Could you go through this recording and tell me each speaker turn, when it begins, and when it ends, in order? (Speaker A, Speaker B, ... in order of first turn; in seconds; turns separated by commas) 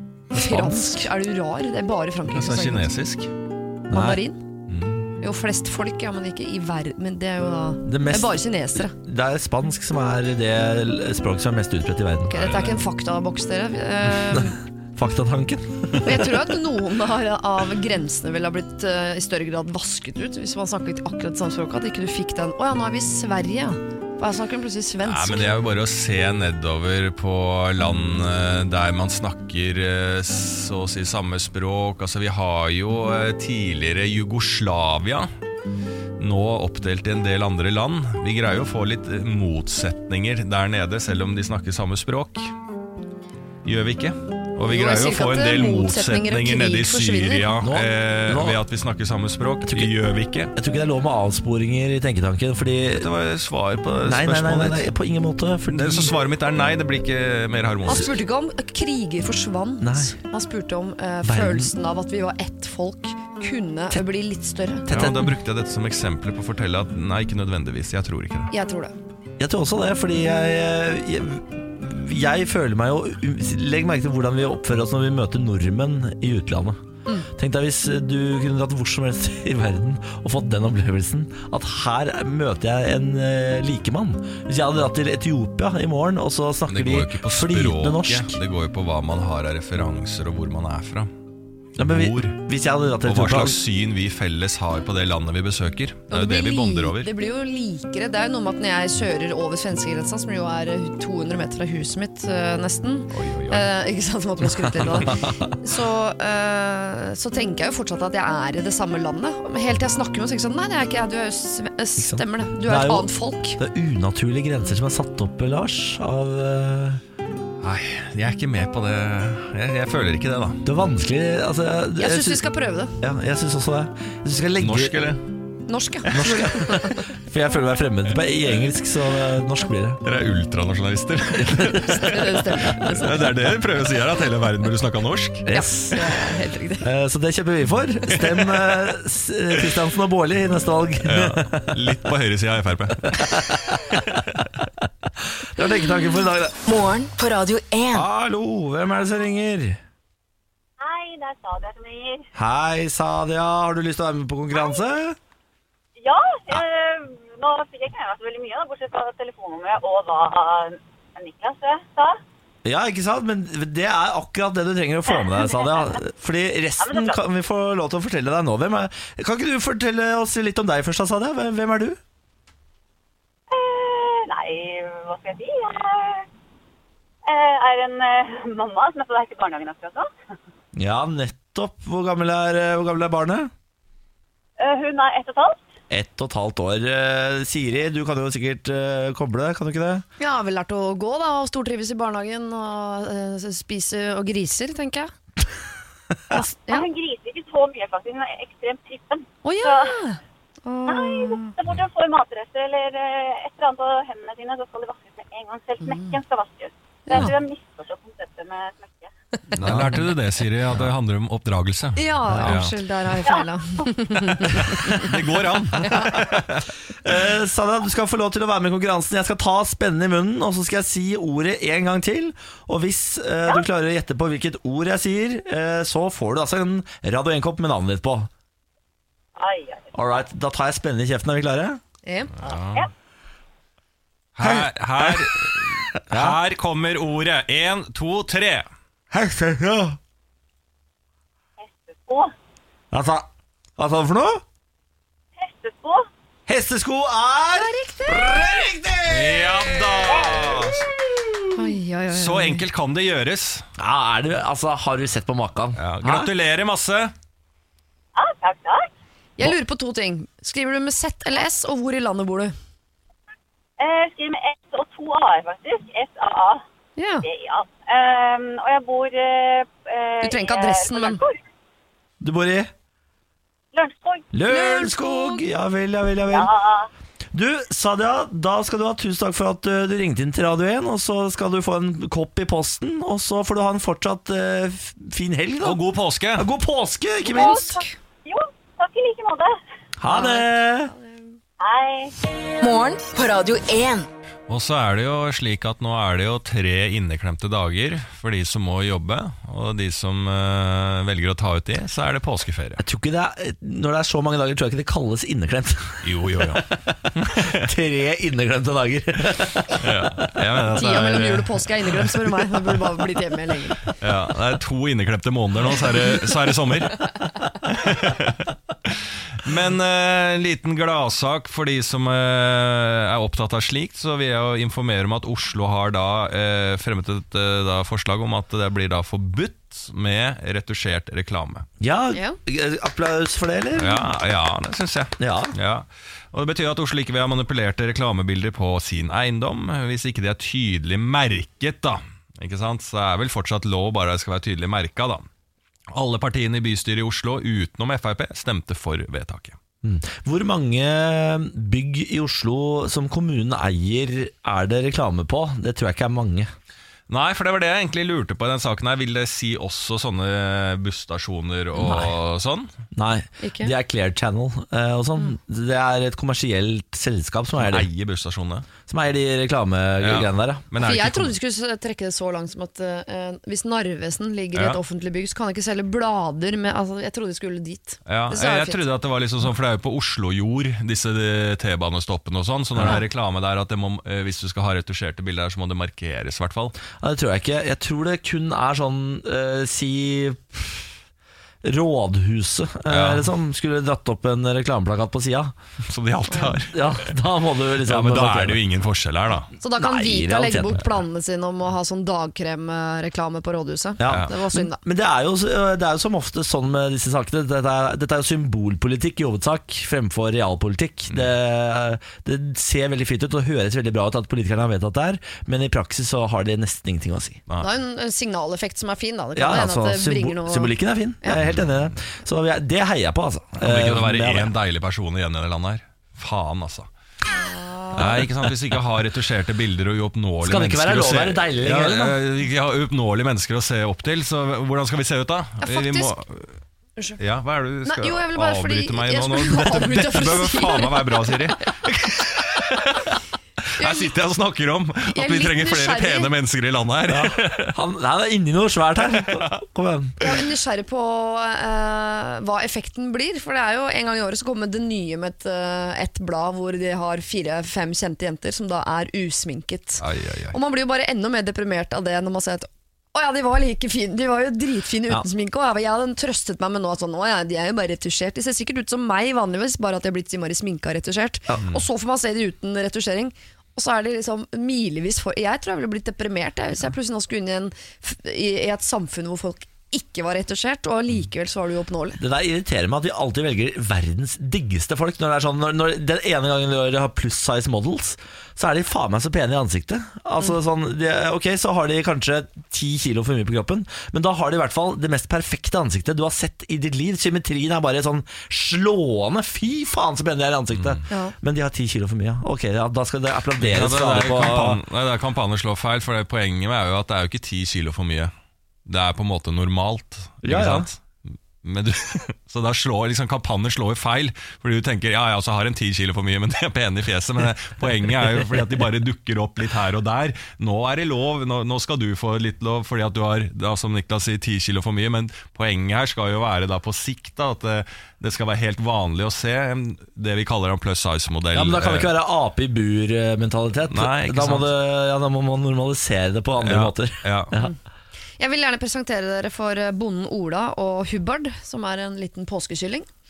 Speaker A: 0.3-2.9, Speaker B: 0.4-0.8, Speaker C: 0.7-1.0, Speaker C: 2.3-3.3, Speaker B: 3.9-4.2, Speaker A: 3.9-4.4, Speaker C: 4.7-5.1, Speaker A: 5.2-8.9, Speaker B: 7.8-12.3, Speaker A: 12.3-14.6, Speaker C: 12.3-12.8, Speaker B: 14.3-16.3, Speaker A: 16.0-25.5, Speaker C: 25.1-35.3, Speaker C: 36.2-42.5, Speaker C: 43.6-50.5, Speaker A: 44.6-47.5, Speaker B: 47.6-48.6, Speaker B: 49.6-49.9, Speaker B: 50.5-53.1, Speaker C: 52.9-54.9, Speaker B: 54.0-56.1, Speaker C: 55.7-58.1, Speaker A: 57.9-64.9, Speaker B: 59.8-60.2, Speaker B: 61.2-61.7, Speaker B: 64.9-65.4, Speaker C: 64.9-68.5, Speaker A: 68.5-68.9, Speaker B: 69.4-88.4, Speaker C: 86.7-91.1, Speaker B: 91.8-93.6, Speaker C: 91.8-92.4, Speaker C: 93.0-97.1, Speaker A: 96.1-113.6, Speaker C: 103.1-103.7, Speaker B: 104.6-105.6, Speaker B: 112.0-117.0, Speaker C: 117.6-120.6, Speaker B: 120.7-122.4, Speaker A: 122.0-123.0, Speaker B: 123.0-125.0, Speaker C: 124.6-125.3, Speaker A: 125.7-127.1, Speaker B: 126.1-130.0, Speaker C: 130.0-135.5, Speaker B: 131.5-131.7, Speaker A: 131.7-133.2, Speaker B: 135.5-136.2, Speaker A: 135.5-136.9, Speaker B: 136.8-141.8, Speaker C: 138.1-138.9, Speaker C: 141.1-143.4, Speaker B: 143.0-144.1, Speaker C: 143.9-144.5, Speaker B: 144.8-146.6, Speaker D: 146.7-148.1, Speaker B: 147.9-149.8, Speaker E: 150.8-152.3, Speaker B: 152.3-155.2, Speaker E: 154.5-154.8, Speaker E: 156.0-162.2, Speaker B: 162.7-172.0, Speaker E: 165.1-165.9, Speaker E: 166.8-167.2, Speaker E: 173.5-176.3, Speaker E: 177.2-180.1, Speaker B: 180.8-183.5, Speaker E: 184.6-185.6, Speaker B: 185.9-190.1, Speaker A: 190.2-195.1, Speaker A: 196.3-196.9, Speaker E: 196.7-200.0, Speaker A: 199.4-201.6, Speaker E: 200.9-209.1, Speaker A: 205.8-206.2, Speaker A: 207.1-207.3, Speaker A: 209.5-209.9, Speaker C: 209.6-212.7, Speaker B: 209.6-210.1, Speaker A: 212.0-215.1, Speaker B: 212.3-212.6, Speaker C: 214.5-216.7, Speaker A: 215.8-216.3, Speaker B: 217.0-228.3, Speaker E: 229.4-229.9, Speaker B: 229.9-231.8, Speaker A: 232.1-232.3, Speaker C: 232.4-232.9, Speaker C: 234.3-238.7, Speaker B: 234.4-236.4, Speaker B: 239.1-240.0, Speaker E: 241.6-242.3, Speaker B: 242.9-244.4, Speaker E: 245.4-246.1, Speaker B: 246.5-251.6, Speaker A: 247.5-248.4, Speaker C: 249.1-250.8, Speaker E: 250.1-250.4, Speaker A: 251.5-252.6, Speaker C: 252.1-253.7, Speaker B: 253.8-256.3, Speaker C: 255.8-257.1, Speaker E: 258.1-258.9, Speaker A: 259.4-262.5, Speaker E: 263.8-266.6, Speaker A: 267.0-267.3, Speaker E: 267.2-271.4, Speaker A: 270.2-271.2, Speaker B: 272.2-272.7, Speaker E: 273.7-274.3, Speaker B: 274.3-276.5, Speaker A: 274.5-275.5, Speaker E: 276.3-276.9, Speaker B: 277.3-285.8, Speaker C: 285.6-286.5, Speaker B: 286.4-287.8, Speaker A: 287.3-287.9, Speaker E: 287.3-289.6, Speaker B: 290.0-290.9, Speaker A: 290.1-291.4, Speaker E: 291.6-292.1, Speaker D: 292.6-294.1, Speaker C: 294.5-302.8, Speaker B: 302.8-310.3, Speaker C: 306.0-307.7, Speaker C: 309.7-312.2, Speaker A: 310.7-313.9, Speaker C: 314.0-317.1, Speaker C: 317.7-331.7, Speaker B: 331.8-334.1, Speaker A: 332.1-332.4, Speaker C: 333.8-345.3, Speaker B: 335.2-335.6, Speaker C: 345.9-349.6, Speaker B: 349.8-356.5, Speaker C: 357.1-362.7, Speaker B: 361.8-362.1, Speaker B: 362.9-367.9, Speaker A: 363.4-363.7, Speaker C: 367.6-368.7, Speaker B: 368.9-370.7, Speaker C: 370.0-371.4, Speaker A: 370.8-378.8, Speaker C: 374.6-374.8, Speaker C: 378.1-386.8, Speaker B: 387.0-390.9, Speaker B: 391.6-395.6, Speaker C: 392.9-393.3, Speaker C: 395.9-397.1, Speaker B: 396.4-398.6, Speaker C: 397.8-399.5, Speaker A: 399.6-404.8, Speaker B: 399.8-400.9, Speaker B: 404.0-417.4, Speaker C: 404.1-404.3, Speaker A: 417.6-421.4, Speaker B: 419.4-424.5, Speaker C: 423.6-426.9, Speaker A: 427.3-428.2, Speaker C: 428.0-436.6, Speaker B: 430.4-432.2, Speaker A: 435.6-436.2, Speaker C: 437.2-443.1, Speaker A: 437.9-441.4, Speaker C: 443.8-447.8, Speaker A: 443.8-444.2, Speaker A: 445.1-446.3, Speaker B: 447.1-450.2, Speaker C: 449.1-449.6, Speaker A: 450.2-482.2, Speaker C: 460.0-460.6, Speaker B: 482.2-504.8, Speaker C: 500.7-501.1, Speaker A: 501.1-501.4, Speaker C: 503.6-508.3, Speaker C: 508.9-511.0, Speaker B: 510.4-510.9, Speaker C: 511.6-532.1, Speaker B: 531.5-537.7, Speaker C: 533.9-534.7, Speaker C: 536.6-537.5, Speaker A: 538.4-543.1